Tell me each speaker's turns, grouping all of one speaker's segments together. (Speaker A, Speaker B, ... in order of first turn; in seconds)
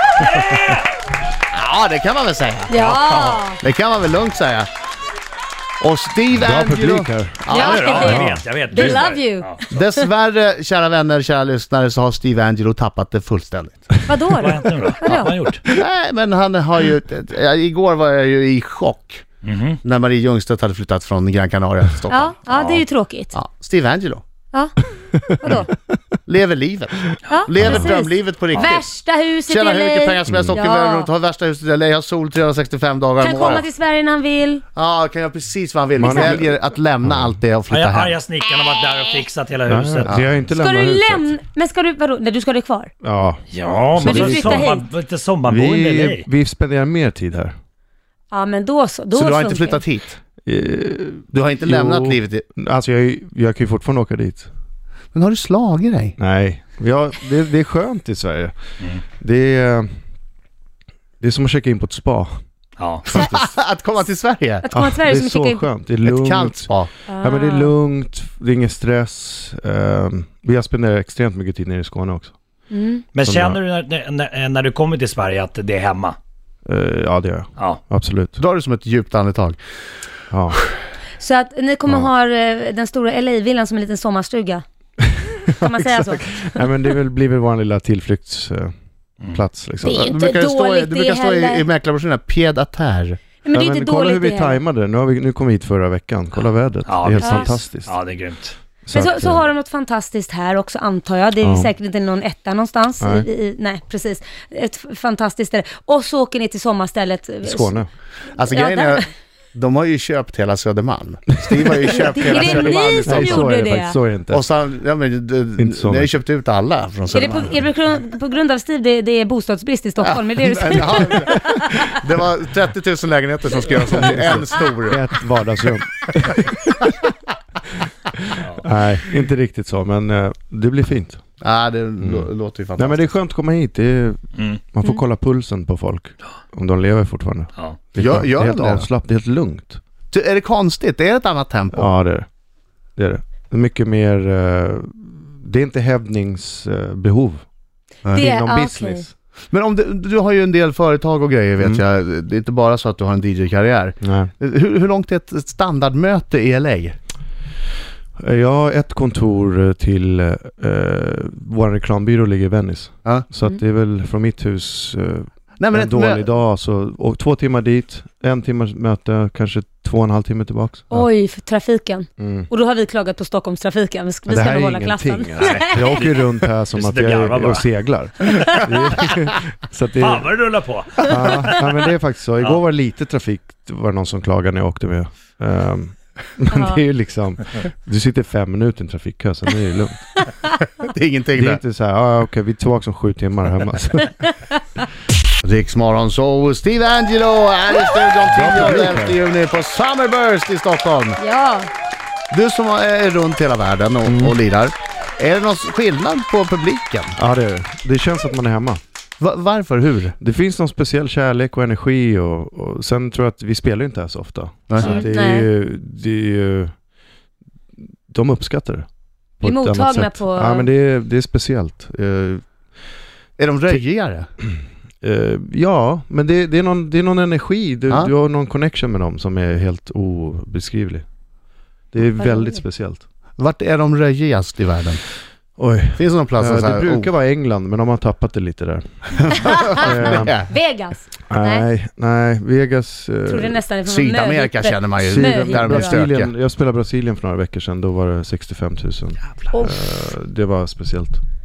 Speaker A: 0.1-0.9, 7.5-9.6, 14.4-15.6, 19.4-19.8, 37.7-40.3, 43.5-46.3, 62.8-63.1, 73.1-76.2, 96.9-98.6, 128.4-128.7, 134.4-134.6, 175.4-176.1, 176.7-177.7, 180.0-181.2
Speaker B: 1.5-4.7, 5.8-8.2, 9.7-14.0, 15.7-19.3, 19.8-24.2, 26.3-28.9, 29.5-33.7, 34.8-38.2, 49.1-50.2, 51.3-52.5, 55.1-56.2, 63.1-64.7, 66.0-66.9, 78.4-79.6, 89.8-93.2, 108.3-113.5, 114.3-117.6, 120.0-125.0, 131.4-133.1, 138.0-138.9, 140.1-141.9, 149.5-157.0, 165.6-166.2, 190.8-191.6, 195.4-201.2, 202.3-207.2, 209.2-210.2, 214.7-215.1, 223.4-224.3, 233.4-235.0, 236.0-237.1, 239.2-240.5, 243.9-246.3
Speaker C: 2.7-3.6, 7.5-10.1, 14.1-15.3, 22.1-23.3, 24.5-25.7, 27.3-31.1, 33.2-34.6, 40.5-42.9, 44.0-44.9, 48.3-49.8, 64.6-65.7, 67.1-67.7, 72.7-73.1, 81.2-84.6, 85.5-86.7, 89.8-91.7, 93.4-94.6, 97.2-97.5, 98.9-107.8, 108.5-109.0, 111.9-114.0, 117.1-121.9, 148.1-149.1, 170.9-176.1, 186.5-186.8, 201.2-201.7, 214.8-215.5, 219.4-220.7, 232.2-232.6, 239.8-241.7, 243.3-246.0, 249.5-249.8
Speaker D: 6.3-8.5, 27.6-27.9, 30.3-30.6, 36.0-37.3, 39.7-41.3, 43.0-43.4, 44.0-44.7, 45.5-47.5, 50.5-54.5, 56.2-58.6, 59.2-59.9, 61.2-62.3, 63.1-63.5, 64.7-72.3, 73.2-73.6, 76.7-78.4, 80.3-80.6, 85.7-88.7, 89.2-90.1, 93.5-98.0, 98.8-99.5, 101.4-101.7, 103.0-103.3, 107.4-107.9, 111.5-114.5, 115.6-116.2, 123.9-126.8, 128.1-131.2, 132.0-139.8, 141.7-142.3, 143.0-147.4, 148.2-149.1, 154.0-154.3, 158.2-171.1, 172.2-172.5, 174.3-180.3, 181.0-190.1, 191.4-194.3, 198.3-199.2, 204.1-204.4, 207.2-208.8, 210.2-216.7, 218.1-218.9, 219.4-222.4, 225.0-231.1, 231.9-233.0, 235.6-240.4, 241.3-243.6, 245.0-251.2